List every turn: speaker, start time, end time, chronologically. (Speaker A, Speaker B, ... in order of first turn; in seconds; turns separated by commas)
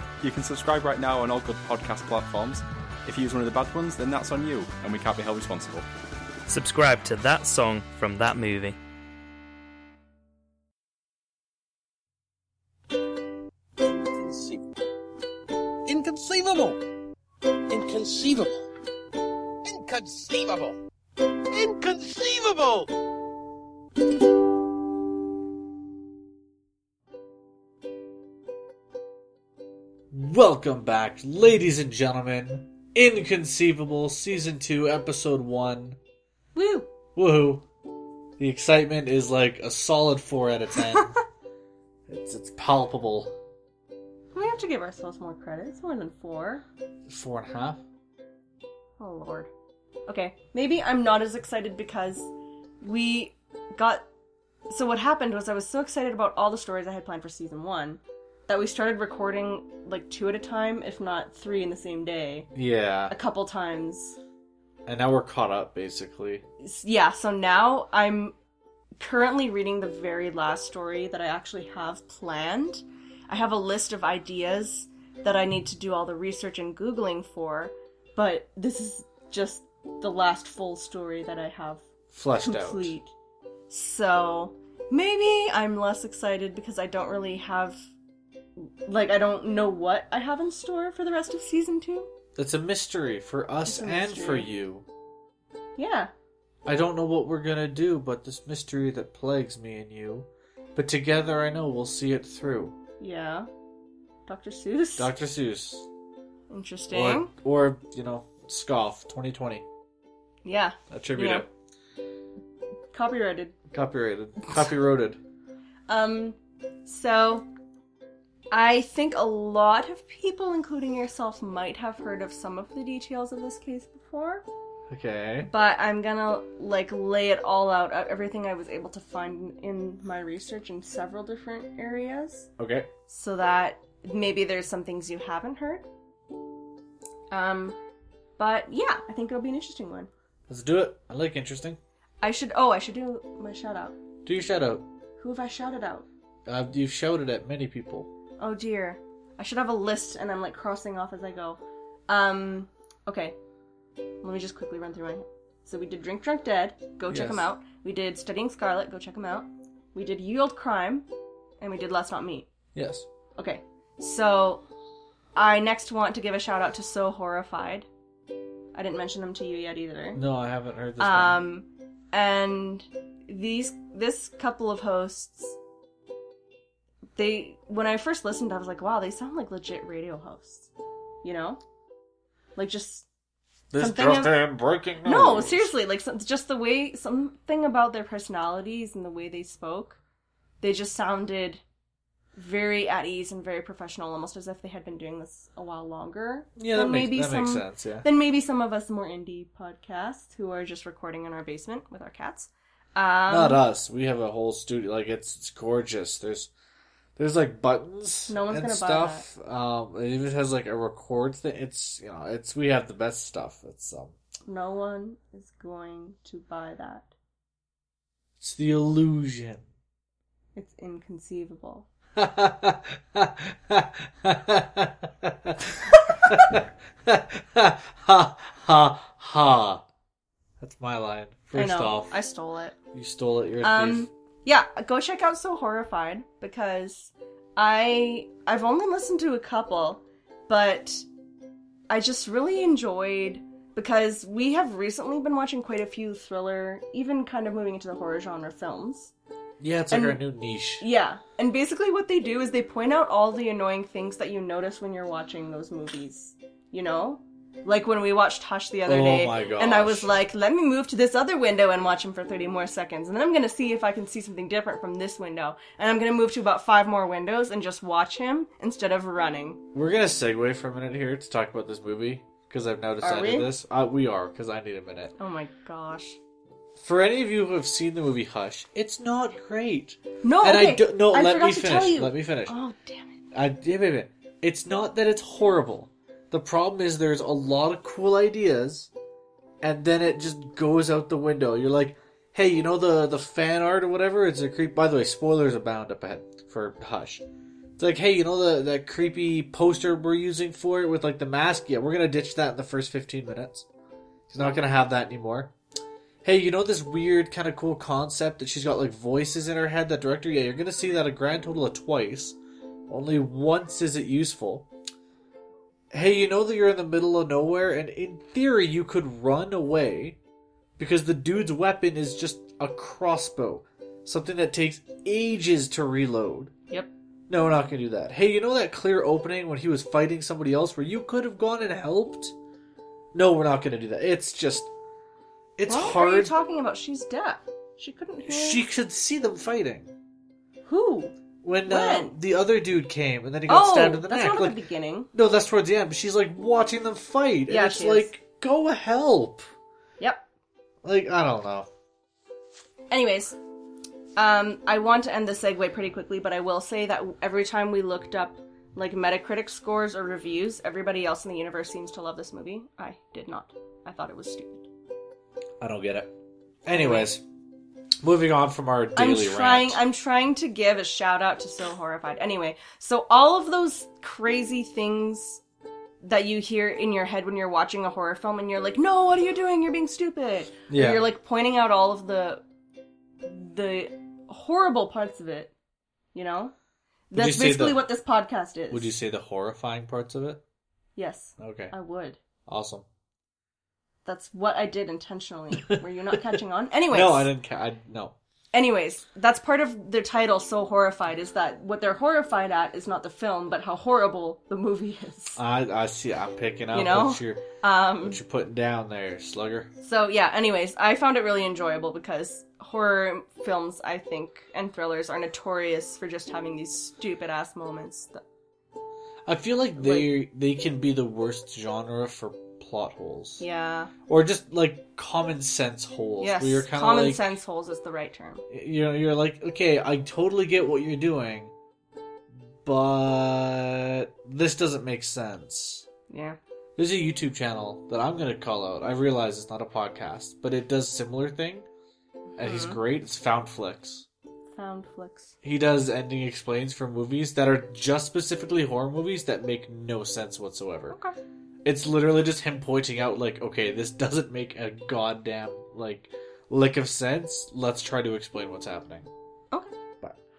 Speaker A: 0.2-5.8, Speaker B: 6.5-8.8, Speaker C: 13.8-14.7, Speaker C: 15.8-16.8, Speaker C: 17.7-18.5, Speaker C: 19.6-20.8, Speaker C: 21.5-22.9, Speaker D: 30.1-36.0, Speaker E: 36.5-36.9, Speaker D: 37.1-37.6, Speaker D: 38.4-41.2, Speaker D: 42.1-43.3, Speaker E: 44.3-46.6, Speaker D: 47.0-47.8, Speaker E: 49.0-49.5, Speaker E: 50.1-54.0, Speaker E: 54.7-62.5, Speaker D: 62.5-63.1, Speaker E: 63.1-64.2, Speaker D: 64.9-66.4, Speaker E: 66.6-68.3, Speaker E: 69.0-81.8, Speaker D: 82.1-82.9, Speaker E: 82.4-83.1, Speaker E: 83.7-87.8, Speaker E: 88.6-92.1, Speaker D: 92.3-94.8, Speaker E: 93.7-94.5, Speaker E: 95.8-96.1, Speaker D: 96.6-102.7, Speaker E: 103.0-103.5, Speaker E: 104.2-105.1, Speaker D: 105.0-105.9, Speaker E: 106.5-107.3, Speaker D: 106.9-109.6, Speaker E: 110.4-111.5, Speaker D: 110.9-111.5, Speaker E: 112.9-113.5, Speaker D: 113.7-115.2, Speaker E: 115.9-117.5, Speaker E: 118.5-124.4, Speaker D: 124.9-125.5, Speaker E: 125.4-132.5, Speaker D: 132.6-132.9, Speaker E: 133.1-135.8, Speaker E: 137.3-137.8, Speaker E: 138.4-140.1, Speaker D: 140.5-141.8, Speaker E: 142.2-144.0, Speaker D: 144.2-144.8, Speaker E: 145.2-146.1, Speaker D: 146.4-148.1, Speaker E: 148.4-153.3, Speaker E: 154.2-161.1, Speaker D: 157.1-157.4, Speaker E: 161.6-162.5, Speaker D: 162.7-163.1, Speaker E: 163.3-164.6, Speaker E: 165.3-167.9, Speaker E: 168.7-170.2, Speaker D: 170.1-171.4, Speaker E: 171.0-175.6, Speaker E: 177.2-180.7, Speaker E: 181.2-181.6, Speaker E: 182.6-183.1, Speaker D: 183.7-185.7, Speaker E: 183.8-184.4, Speaker E: 185.0-190.0, Speaker E: 190.6-191.6, Speaker E: 192.3-203.6, Speaker D: 196.6-198.1, Speaker D: 203.3-206.5, Speaker D: 207.2-214.2, Speaker E: 208.3-209.3, Speaker E: 214.5-217.1, Speaker D: 218.4-219.6, Speaker E: 220.5-221.9, Speaker D: 222.2-229.8, Speaker D: 230.6-232.1, Speaker E: 231.5-232.8, Speaker D: 232.9-234.1, Speaker E: 233.6-241.1, Speaker E: 241.9-249.1, Speaker D: 249.6-250.8, Speaker E: 249.9-250.2, Speaker E: 250.8-269.6, Speaker D: 258.9-260.1, Speaker D: 269.7-275.1, Speaker E: 273.0-273.5, Speaker E: 275.2-276.2, Speaker D: 276.8-282.6, Speaker E: 280.2-283.2, Speaker D: 283.3-288.9, Speaker D: 289.6-297.2, Speaker D: 297.8-303.6, Speaker D: 304.3-305.5, Speaker D: 306.2-314.7, Speaker D: 315.9-320.2, Speaker D: 320.8-326.5, Speaker D: 327.3-332.4, Speaker D: 333.1-334.7, Speaker D: 335.6-336.3, Speaker E: 335.7-338.6, Speaker D: 338.2-339.9, Speaker E: 340.6-342.2, Speaker D: 341.4-344.6, Speaker E: 343.5-345.1, Speaker D: 345.1-349.5, Speaker E: 347.5-348.1, Speaker E: 350.0-350.2, Speaker D: 350.8-351.7, Speaker E: 352.9-353.4, Speaker E: 354.1-364.7, Speaker D: 365.6-366.1, Speaker D: 366.6-367.2, Speaker E: 366.7-367.1, Speaker D: 368.0-369.8, Speaker E: 368.9-375.4, Speaker E: 376.0-382.4, Speaker D: 380.7-381.1, Speaker E: 383.2-385.5, Speaker E: 386.1-386.5, Speaker E: 387.1-388.9, Speaker D: 387.1-387.8, Speaker D: 388.7-390.4, Speaker E: 390.9-392.2, Speaker D: 391.4-391.7, Speaker D: 392.5-392.9, Speaker E: 394.0-397.3, Speaker D: 395.6-396.3, Speaker D: 396.9-398.1, Speaker E: 398.5-405.4, Speaker D: 405.4-407.4, Speaker E: 406.7-408.2, Speaker D: 408.0-409.7, Speaker E: 409.8-418.2, Speaker D: 419.2-423.4, Speaker E: 419.8-420.1, Speaker E: 423.4-423.9, Speaker D: 424.1-427.2, Speaker E: 426.2-428.4, Speaker D: 428.5-431.5, Speaker D: 432.6-435.9, Speaker E: 436.1-436.4, Speaker D: 436.8-441.7, Speaker E: 442.3-442.8, Speaker D: 442.4-444.1, Speaker E: 444.5-445.3, Speaker D: 445.4-451.0, Speaker E: 450.9-451.1, Speaker D: 451.6-459.1